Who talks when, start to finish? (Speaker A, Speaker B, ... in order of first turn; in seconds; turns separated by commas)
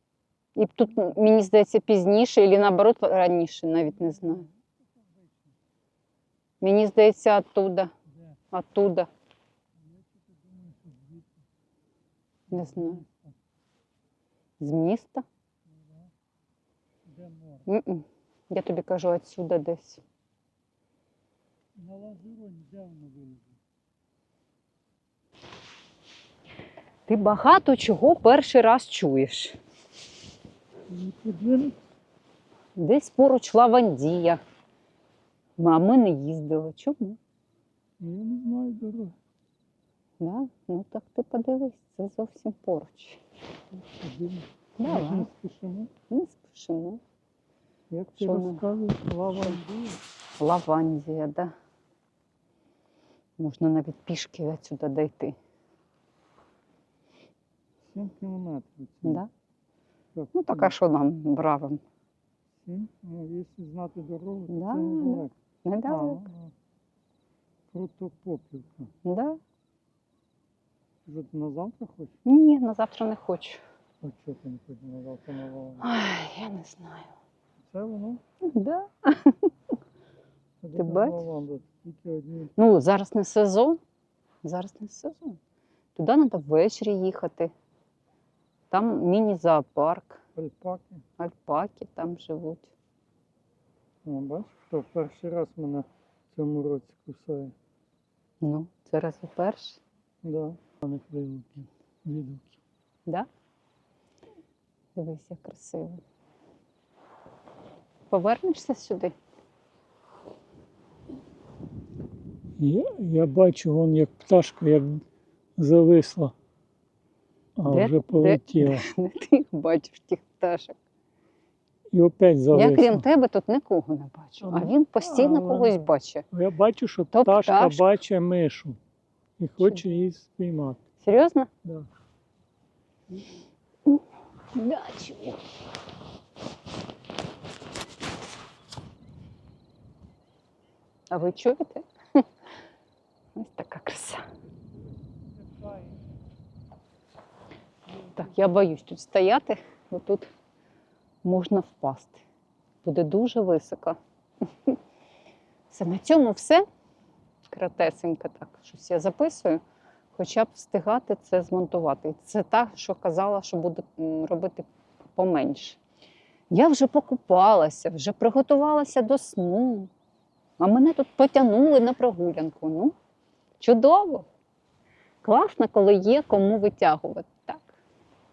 Speaker A: 0.6-4.5, Speaker B: 4.2-4.4, Speaker B: 5.0-5.3, Speaker A: 6.6-7.9, Speaker A: 8.5-9.1, Speaker B: 9.9-11.3, Speaker B: 12.5-13.3, Speaker A: 12.5-13.0, Speaker A: 14.6-15.2, Speaker B: 15.7-16.1, Speaker B: 17.1-17.7, Speaker A: 17.7-20.0, Speaker B: 21.8-23.6, Speaker A: 27.1-29.6, Speaker B: 30.9-31.8, Speaker A: 32.8-34.4, Speaker A: 35.6-37.2, Speaker B: 38.0-39.1, Speaker A: 40.2-43.2, Speaker B: 43.7-45.9, Speaker A: 44.8-45.3, Speaker A: 46.1-47.0, Speaker B: 47.9-50.0, Speaker A: 48.2-48.6, Speaker A: 50.4-51.5, Speaker A: 53.4-55.4, Speaker B: 57.9-59.2, Speaker A: 59.0-59.3, Speaker B: 60.1-60.7, Speaker A: 60.3-61.8, Speaker B: 62.6-65.3, Speaker A: 64.5-66.3, Speaker B: 65.9-66.5, Speaker B: 67.7-68.9, Speaker A: 69.0-69.4, Speaker B: 71.0-72.1, Speaker A: 72.2-73.6, Speaker B: 74.0-75.9, Speaker A: 75.8-77.1, Speaker B: 77.6-78.2, Speaker A: 78.4-79.5, Speaker B: 80.6-82.5, Speaker A: 80.8-81.2, Speaker A: 82.6-83.8, Speaker A: 84.4-85.4, Speaker A: 86.0-87.5, Speaker A: 88.7-90.2, Speaker B: 90.4-91.0, Speaker A: 91.2-92.7, Speaker B: 94.0-97.5, Speaker A: 98.4-99.8, Speaker B: 100.2-102.6, Speaker A: 105.0-106.0, Speaker A: 108.1-109.1, Speaker B: 112.6-115.0, Speaker B: 115.6-116.3, Speaker B: 117.6-118.9, Speaker A: 117.7-120.8, Speaker B: 121.9-123.0, Speaker A: 122.5-126.2, Speaker B: 124.4-125.8, Speaker B: 126.3-128.8, Speaker A: 127.1-128.0, Speaker B: 129.4-130.8, Speaker A: 131.0-131.5, Speaker A: 134.5-135.4, Speaker A: 141.1-142.2, Speaker A: 143.3-144.2, Speaker B: 145.5-145.9, Speaker A: 148.1-150.3, Speaker A: 151.2-152.2, Speaker A: 152.8-154.0, Speaker A: 155.7-156.7, Speaker A: 157.5-159.6, Speaker A: 160.2-165.8, Speaker A: 166.5-169.9, Speaker A: 170.6-172.9, Speaker A: 173.6-174.3, Speaker A: 175.2-177.7